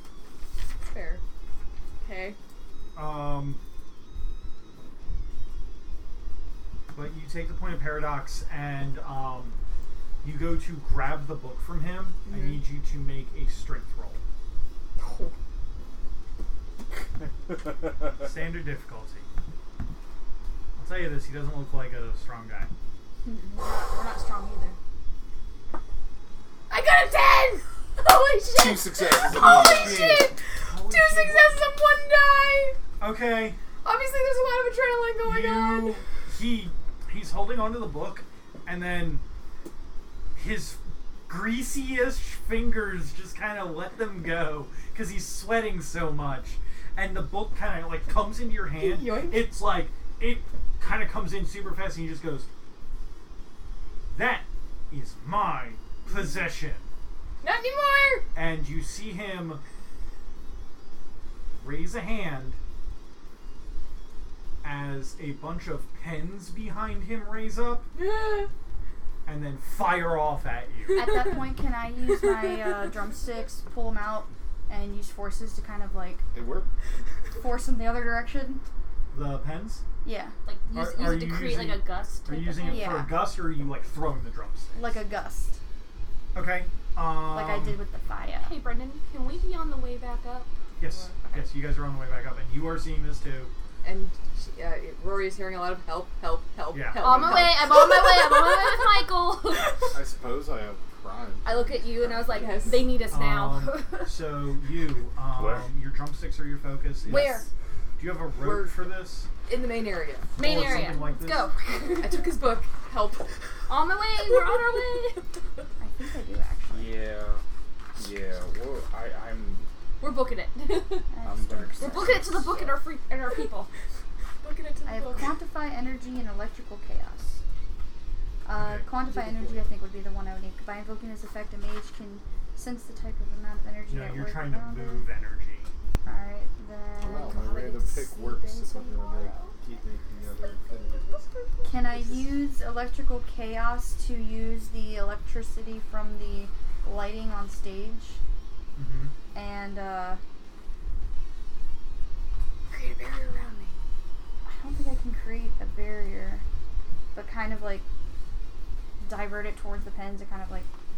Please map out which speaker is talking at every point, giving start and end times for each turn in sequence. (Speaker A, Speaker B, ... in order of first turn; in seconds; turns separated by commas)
Speaker A: 0.6-1.2, Speaker A: 2.0-2.4, Speaker B: 2.9-3.6, Speaker B: 6.9-9.6, Speaker B: 10.2-14.2, Speaker A: 12.3-12.6, Speaker C: 15.0-15.3, Speaker B: 18.2-19.3, Speaker B: 20.8-22.7, Speaker C: 23.2-24.8, Speaker A: 26.7-28.4, Speaker C: 28.0-29.9, Speaker D: 28.6-30.1, Speaker A: 29.3-32.8, Speaker B: 29.6-31.6, Speaker B: 33.0-33.6, Speaker A: 33.8-36.0, Speaker B: 35.2-39.2, Speaker B: 40.3-52.5, Speaker A: 48.7-49.5, Speaker B: 54.1-56.9, Speaker A: 57.4-58.2, Speaker B: 58.3-59.6, Speaker B: 61.6-62.6, Speaker B: 64.6-67.9, Speaker A: 68.0-68.5, Speaker B: 69.2-71.1, Speaker E: 70.9-76.3, Speaker D: 76.3-76.7, Speaker E: 77.4-78.6, Speaker B: 79.1-79.8, Speaker E: 80.0-80.3, Speaker C: 80.4-83.0, Speaker B: 80.7-85.0, Speaker E: 82.6-83.2, Speaker E: 84.8-85.6, Speaker B: 86.3-87.8, Speaker E: 87.2-88.5, Speaker C: 88.4-90.5, Speaker B: 90.8-93.5, Speaker A: 93.8-98.7, Speaker B: 96.7-97.4, Speaker C: 97.0-100.0, Speaker D: 99.9-102.2, Speaker C: 101.4-104.2, Speaker A: 102.1-103.1, Speaker B: 103.1-107.4, Speaker F: 105.3-105.7, Speaker C: 107.0-107.5, Speaker B: 108.0-109.3, Speaker A: 108.4-108.8, Speaker A: 109.4-110.7, Speaker B: 110.4-111.5, Speaker C: 110.4-112.4, Speaker A: 112.0-113.3, Speaker C: 113.7-115.2, Speaker E: 115.8-117.1, Speaker F: 116.7-117.4, Speaker F: 118.0-119.7, Speaker C: 120.0-121.1, Speaker E: 121.1-122.4, Speaker F: 121.2-122.8, Speaker C: 121.8-123.7, Speaker A: 124.4-125.3, Speaker E: 124.8-127.4, Speaker E: 128.4-135.1, Speaker B: 128.6-128.9, Speaker C: 129.1-129.7, Speaker B: 133.9-135.7, Speaker E: 136.0-138.2, Speaker D: 137.0-141.3, Speaker C: 137.3-139.6, Speaker C: 140.3-141.6, Speaker E: 141.7-148.2, Speaker B: 148.8-149.1, Speaker E: 149.3-150.2, Speaker A: 152.7-153.7, Speaker E: 154.4-156.4, Speaker E: 157.1-157.8, Speaker E: 159.0-160.7